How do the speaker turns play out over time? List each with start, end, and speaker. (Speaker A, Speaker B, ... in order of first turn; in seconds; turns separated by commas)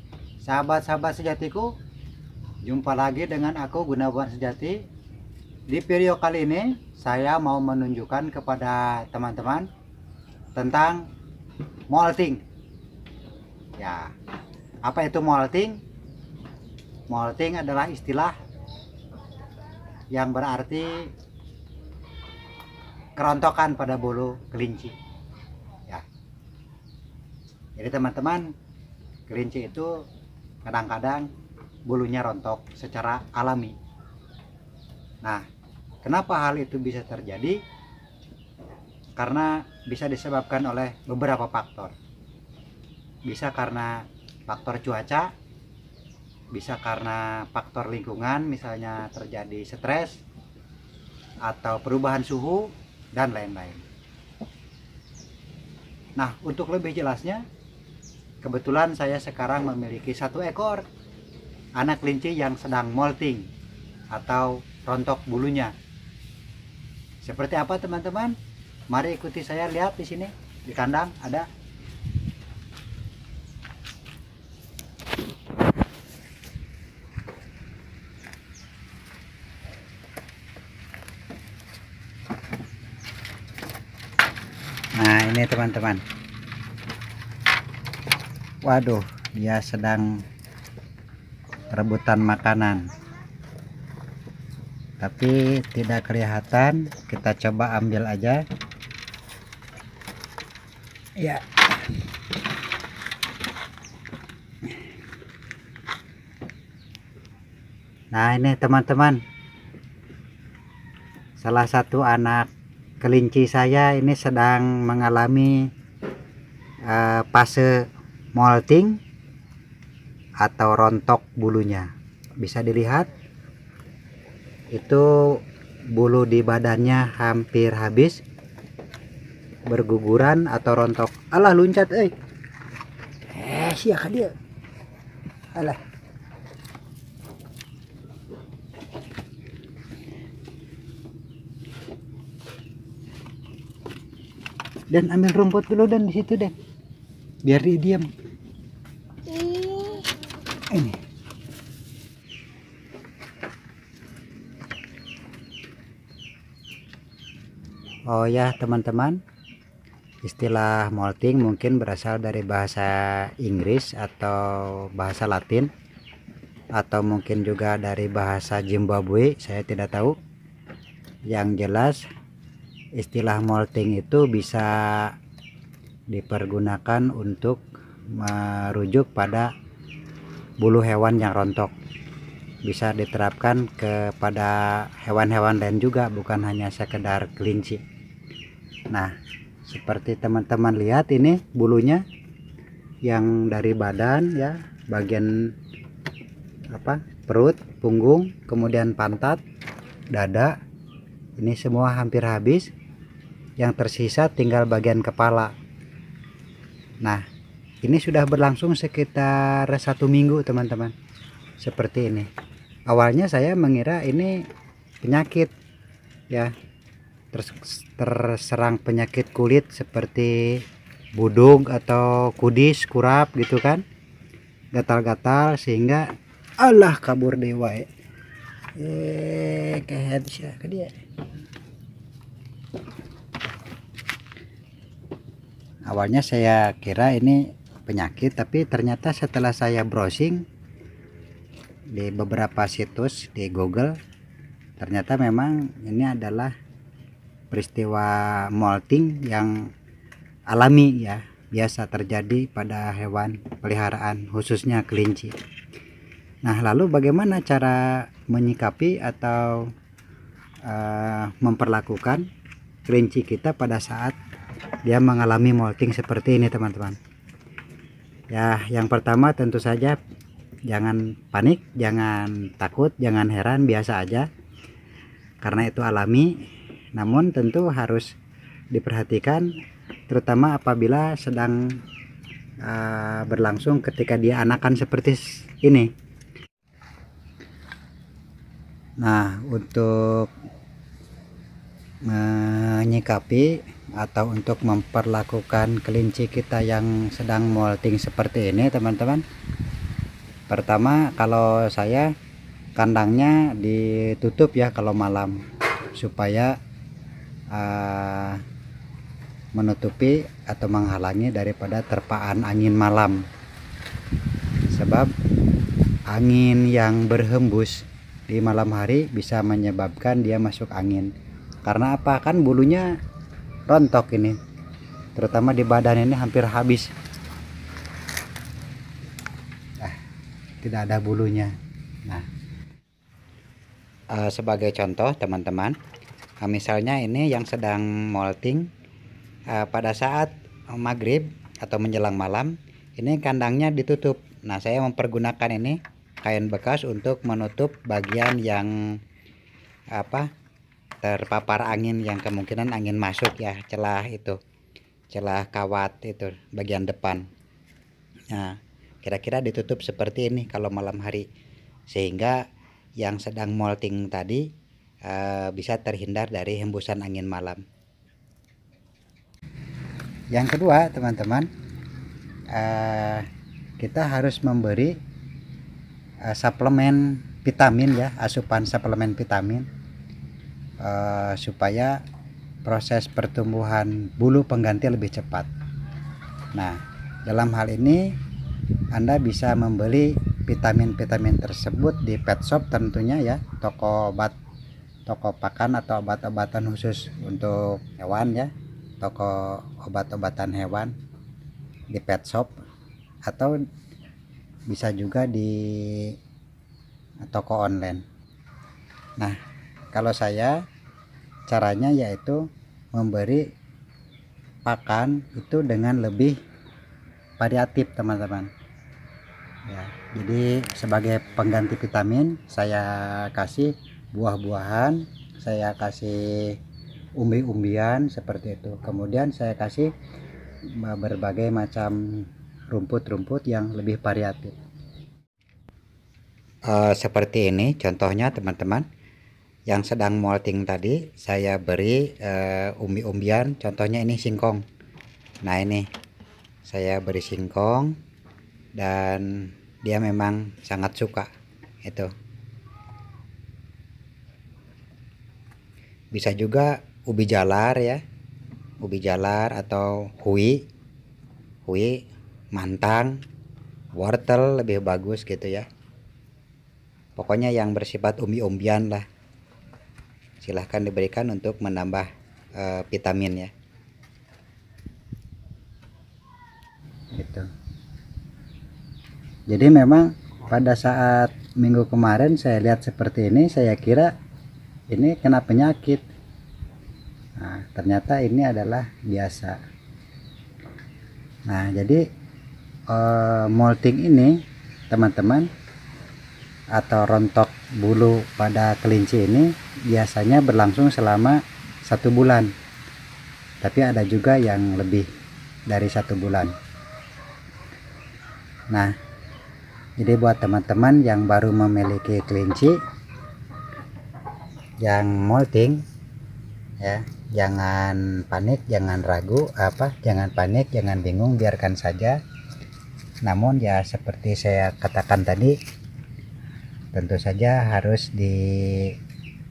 Speaker A: 0.4-1.7, Speaker A: 2.6-4.8, Speaker A: 5.7-9.7, Speaker A: 10.6-11.1, Speaker A: 11.9-12.4, Speaker A: 13.8-14.1, Speaker A: 14.8-15.8, Speaker A: 17.1-18.4, Speaker A: 20.1-21.1, Speaker A: 23.2-24.9, Speaker A: 27.8-28.5, Speaker A: 29.3-30.0, Speaker A: 30.6-31.3, Speaker A: 31.9-33.8, Speaker A: 36.0-37.6, Speaker A: 39.2-42.0, Speaker A: 43.2-45.3, Speaker A: 46.5-50.2, Speaker A: 51.4-53.9, Speaker A: 56.2-57.4, Speaker A: 58.4-60.9, Speaker A: 61.8-63.5, Speaker A: 64.1-65.7, Speaker A: 67.2-68.4, Speaker A: 68.9-71.5, Speaker A: 85.0-86.0, Speaker A: 88.7-90.2, Speaker A: 91.7-92.9, Speaker A: 95.0-98.4, Speaker A: 101.2-101.6, Speaker A: 108.1-109.2, Speaker A: 111.4-112.5, Speaker A: 113.0-115.6, Speaker A: 116.9-117.7, Speaker A: 118.4-119.0, Speaker A: 120.4-123.1, Speaker A: 124.7-125.4, Speaker A: 125.9-128.2, Speaker A: 129.7-132.1, Speaker A: 133.3-134.3, Speaker A: 135.6-135.8, Speaker A: 144.9-146.6, Speaker A: 147.4-148.1, Speaker A: 149.3-150.1, Speaker A: 150.7-151.0, Speaker A: 158.1-159.2, Speaker A: 160.2-165.7, Speaker A: 166.8-170.2, Speaker A: 171.3-172.0, Speaker A: 173.0-175.1, Speaker A: 176.1-177.6, Speaker A: 178.1-179.5, Speaker A: 180.6-181.7, Speaker A: 182.7-187.8, Speaker A: 189.7-192.0, Speaker A: 193.1-195.3, Speaker A: 196.7-199.4, Speaker A: 200.1-200.5, Speaker A: 201.4-202.7, Speaker A: 203.6-205.5, Speaker A: 207.8-210.9, Speaker A: 211.6-212.3, Speaker A: 212.9-214.5, Speaker A: 215.0-215.5, Speaker A: 217.3-220.6, Speaker A: 221.2-223.8, Speaker A: 224.8-226.1, Speaker A: 226.6-227.9, Speaker A: 228.8-230.9, Speaker A: 235.9-240.4, Speaker A: 241.9-243.9, Speaker A: 244.8-246.5, Speaker A: 247.5-249.7, Speaker A: 250.5-255.3, Speaker A: 256.4-259.7, Speaker A: 260.6-262.3, Speaker A: 262.9-264.2, Speaker A: 264.9-267.0, Speaker A: 268.3-270.0, Speaker A: 270.7-274.3, Speaker A: 275.4-276.3, Speaker A: 277.0-278.1, Speaker A: 278.7-279.5, Speaker A: 280.1-281.6, Speaker A: 282.6-285.9, Speaker A: 289.0-290.3, Speaker A: 292.1-299.2, Speaker A: 300.5-302.1, Speaker A: 302.8-305.4, Speaker A: 306.0-306.5, Speaker A: 307.5-308.4, Speaker A: 309.6-313.2, Speaker A: 314.7-315.1, Speaker A: 316.1-321.1, Speaker A: 321.6-322.9, Speaker A: 323.7-324.4, Speaker A: 325.2-326.9, Speaker A: 330.6-331.5, Speaker A: 334.1-335.8, Speaker A: 336.4-338.7, Speaker A: 339.5-348.7, Speaker A: 349.9-350.3, Speaker A: 351.0-354.4, Speaker A: 355.1-357.3, Speaker A: 358.3-361.3, Speaker A: 361.9-362.4, Speaker A: 363.0-364.4, Speaker A: 365.1-367.6, Speaker A: 370.3-371.5, Speaker A: 372.5-373.3, Speaker A: 373.8-374.9, Speaker A: 376.3-379.7, Speaker A: 380.8-382.0, Speaker A: 382.6-385.5, Speaker A: 386.6-388.0, Speaker A: 388.9-394.4, Speaker A: 395.1-400.9, Speaker A: 401.9-402.5, Speaker A: 403.3-403.6, Speaker A: 404.7-406.1, Speaker A: 407.2-408.0, Speaker A: 409.9-410.6, Speaker A: 411.5-413.5, Speaker A: 414.7-416.4, Speaker A: 417.4-418.5, Speaker A: 419.7-426.6, Speaker A: 427.2-429.9, Speaker A: 430.8-434.6, Speaker A: 436.7-438.9, Speaker A: 439.7-444.6, Speaker A: 445.4-445.9, Speaker A: 446.7-447.9, Speaker A: 448.8-451.3, Speaker A: 451.8-452.1, Speaker A: 456.1-458.0, Speaker A: 458.8-460.6, Speaker A: 461.7-462.0, Speaker A: 462.5-463.2, Speaker A: 464.0-465.7, Speaker A: 467.2-469.1, Speaker A: 470.4-473.5, Speaker A: 477.1-477.5, Speaker A: 479.5-484.1, Speaker A: 484.9-486.0, Speaker A: 487.4-489.6, Speaker A: 491.5-492.0, Speaker A: 492.9-494.4, Speaker A: 494.9-495.5, Speaker A: 496.8-502.5, Speaker A: 503.6-505.1, Speaker A: 505.7-506.5, Speaker A: 510.0-512.8, Speaker A: 514.8-515.8, Speaker A: 516.8-522.2, Speaker A: 523.2-525.6, Speaker A: 526.9-529.0